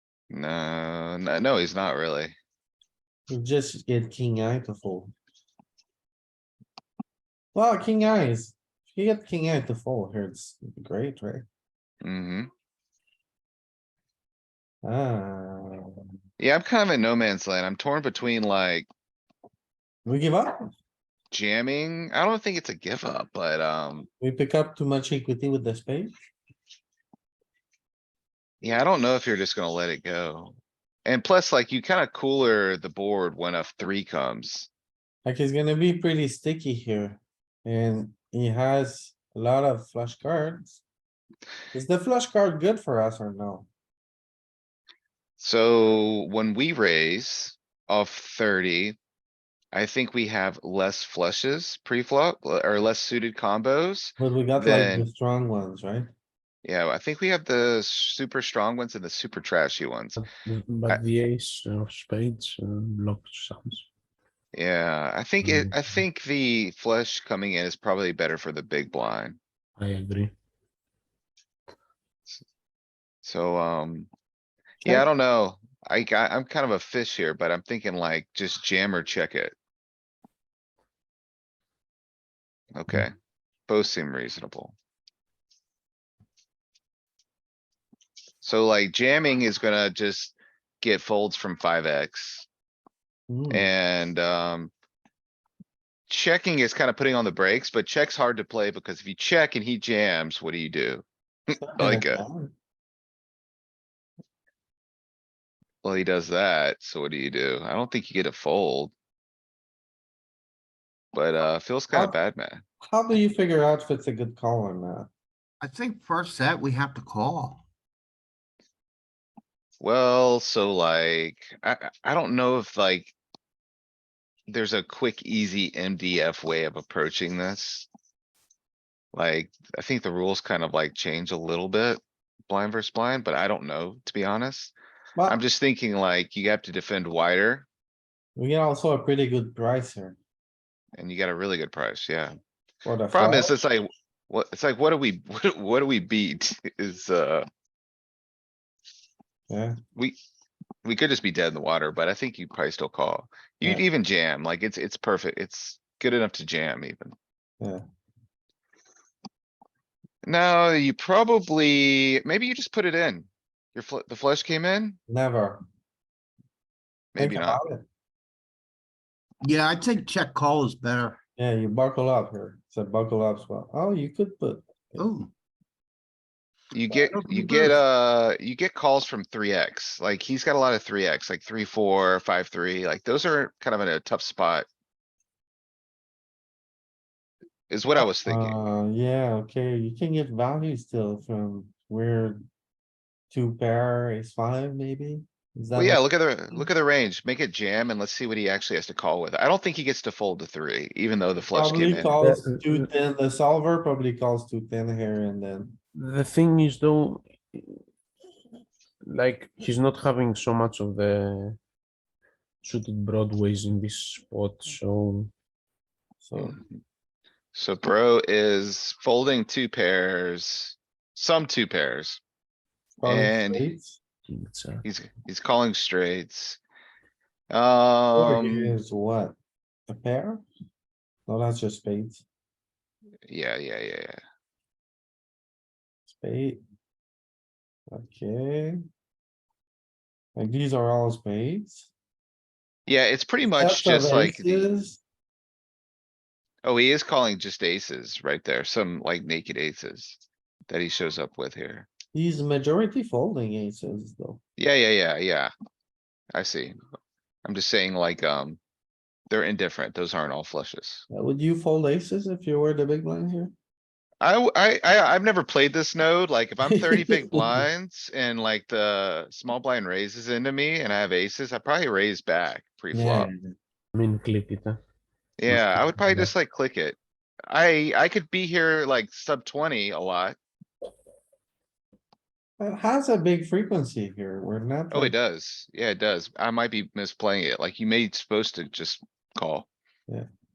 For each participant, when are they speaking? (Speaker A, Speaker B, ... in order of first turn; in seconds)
Speaker A: 0.3-2.4, 12.0-12.5, 16.4-18.9, 21.3-24.1, 28.6-34.7, 45.4-49.0, 49.7-55.1, 56.6-60.2, 64.5-69.4, 73.2-74.1, 74.8-79.5, 82.8-83.1, 83.7-84.8, 88.4-92.5, 93.5-94.7, 96.1-101.0, 101.8-102.2, 105.8-108.9, 111.1-112.6, 119.8-123.1, 124.5-127.9, 129.1-134.7, 135.3-137.7, 141.0-142.3, 143.1-147.5, 150.8-157.1, 160.2-165.0, 167.2-167.6, 176.7-184.7, 187.7-188.6, 195.7-202.1, 216.4-216.6, 217.5-222.2, 223.0-223.6, 224.8-226.6, 227.5-228.8, 233.3-234.2, 242.9-244.7, 246.6-251.9, 254.6-255.5, 256.3-256.8, 257.4-258.6, 259.3-261.1, 264.2-273.3, 275.4-277.0, 277.5-280.4, 284.9-289.7
Speaker B: 3.3-5.1, 7.5-11.4, 14.8-16.0, 20.1-20.7, 24.2-26.2, 35.2-40.8, 41.7-43.7, 54.2-56.1, 93.3-93.7, 101.6-102.5, 112.8-115.1, 138.4-140.2, 142.8-143.6, 149.5-149.8, 165.1-165.6, 167.2-167.9, 171.4-174.7, 188.2-192.4, 193.3-196.7, 201.5-205.8, 216.2-216.6, 223.0-224.0, 228.2-229.3, 229.9-230.4, 231.3-232.2, 236.1-236.6, 237.9-238.8, 240.4-241.9, 243.5-245.0, 252.1-254.4, 261.1-263.5, 266.6-267.7, 272.9-273.5, 282.6-285.1
Speaker C: 60.2-63.9, 65.4-66.0, 69.8-70.3, 202.2-202.9, 206.0-207.8, 209.1-211.6, 212.6-215.3, 224.3-224.8, 273.9-274.8, 275.5-276.3
Speaker D: 115.6-117.6, 169.4-171.2, 175.0-175.3, 176.9-177.7